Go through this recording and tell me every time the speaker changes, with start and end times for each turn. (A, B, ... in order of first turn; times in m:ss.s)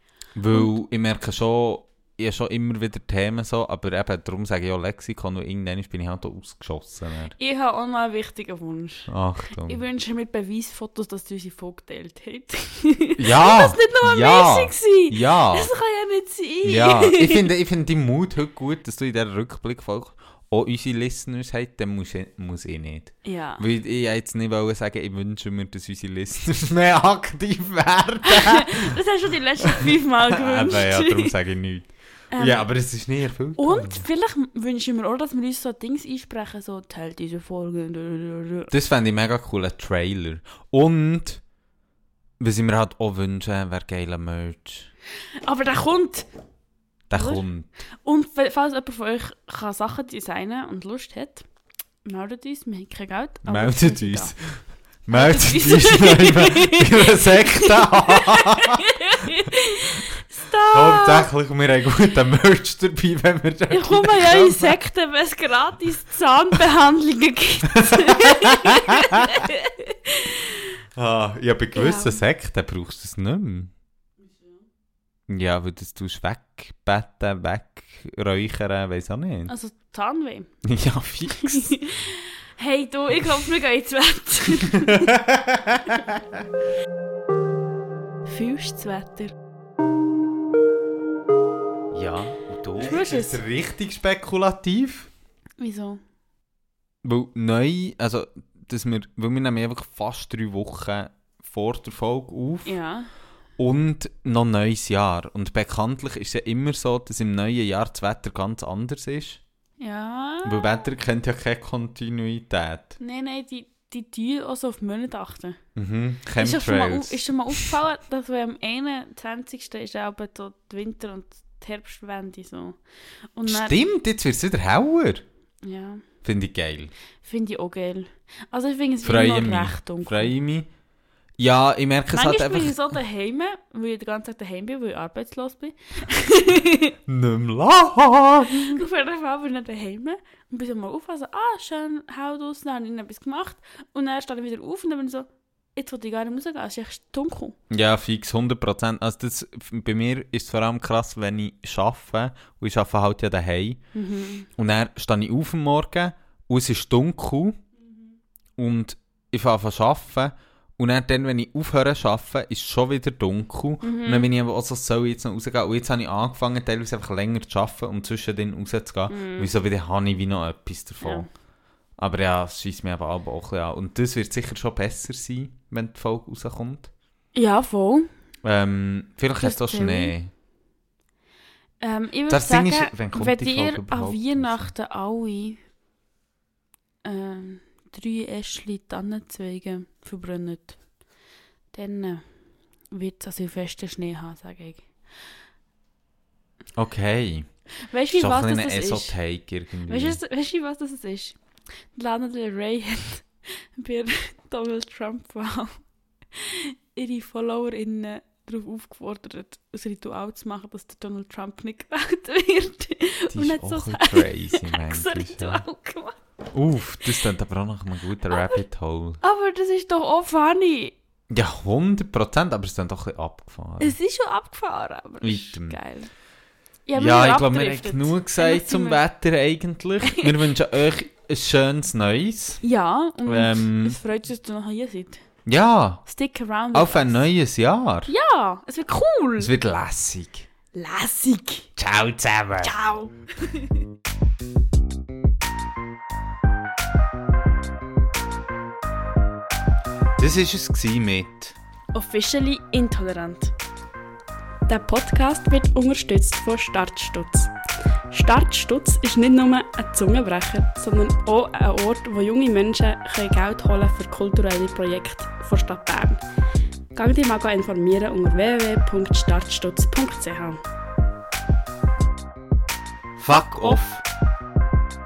0:00.3-0:07.3 A
0:07.3-0:09.1 B
0:09.1-0:09.8 A
0:09.6-0:17.5 B
0:13.2-0:15.7 A
0:16.6-0:29.0 A
0:23.2-0:23.6 B
0:28.2-0:31.3 B
0:29.6-0:34.0 A
0:32.3-0:32.7 B
0:33.6-0:38.7 B
0:38.7-0:41.4 A
0:42.4-0:44.9 A
0:45.4-0:46.3 B
0:47.1-0:47.7 A
0:47.2-0:47.4 B
0:48.0-0:51.4 B
0:52.0-0:54.3 B
0:53.4-0:59.4 A
0:55.1-1:01.3 B
1:00.7-1:04.8 A
1:03.7-1:10.7 B
1:07.7-1:09.5 A
1:10.9-1:13.7 A
1:11.7-1:12.2 B
1:15.3-1:19.5 A
1:19.5-1:20.5 B
1:20.6-1:21.8 A
1:21.3-1:25.1 B
1:24.7-1:26.4 A
1:28.2-1:29.3 B
1:31.9-1:35.1 A
1:32.8-1:33.4 B
1:35.6-1:36.0 B
1:37.0-1:42.8 A
1:42.6-1:43.1 B
1:43.6-1:49.4 A
1:49.8-1:50.9 B
1:50.4-1:53.0 A
1:53.0-1:55.6 B
1:55.8-1:57.7 A
1:56.4-2:02.8 B
2:03.3-2:03.8 B
2:03.5-2:05.2 A
2:05.6-2:06.0 B
2:06.2-2:06.9 A
2:07.2-2:10.3 B
2:09.0-2:10.7 A
2:11.4-2:13.0 A
2:12.1-2:17.0 B
2:17.1-2:18.8 A
2:18.5-2:27.6 B
2:27.7-2:33.8 A
2:33.9-2:34.5 B
2:34.6-2:37.6 A
2:38.6-2:51.3 A
2:43.8-2:44.3 B
2:49.1-2:49.5 B
2:51.0-2:51.3 B
2:52.0-2:56.9 A
2:57.3-2:58.1 B
2:58.4-3:00.3 A
2:59.4-3:00.1 B
3:01.8-3:05.6 B
3:02.3-3:04.7 A
3:07.0-3:10.8 B
3:11.7-3:12.2 B
3:12.9-3:14.9 B
3:16.8-3:17.5 A
3:17.9-3:19.2 B
3:18.1-3:20.2 A
3:19.9-3:21.4 B
3:21.9-3:25.8 B
3:26.3-3:36.2 B
3:33.3-3:35.6 A
3:36.5-3:39.2 A
3:39.2-3:40.9 B
3:41.3-3:43.9 A
3:43.8-3:46.1 B
3:45.2-3:45.8 A
3:46.9-3:49.0 B
3:47.0-3:52.6 A
3:50.0-3:50.3 B
3:52.6-3:55.2 B
3:53.2-3:54.0 A
3:55.4-3:56.0 A
3:56.0-3:57.2 B
3:56.7-3:58.1 A
3:58.1-3:59.5 B
3:59.4-4:00.5 A
4:00.7-4:01.7 B
4:01.8-4:02.8 A
4:02.6-4:03.8 B
4:10.2-4:11.6 A
4:11.9-4:13.5 B
4:14.7-4:17.5 B
4:18.1-4:26.2 B
4:26.9-4:30.6 B
4:33.2-4:34.0 A
4:33.4-4:33.8 B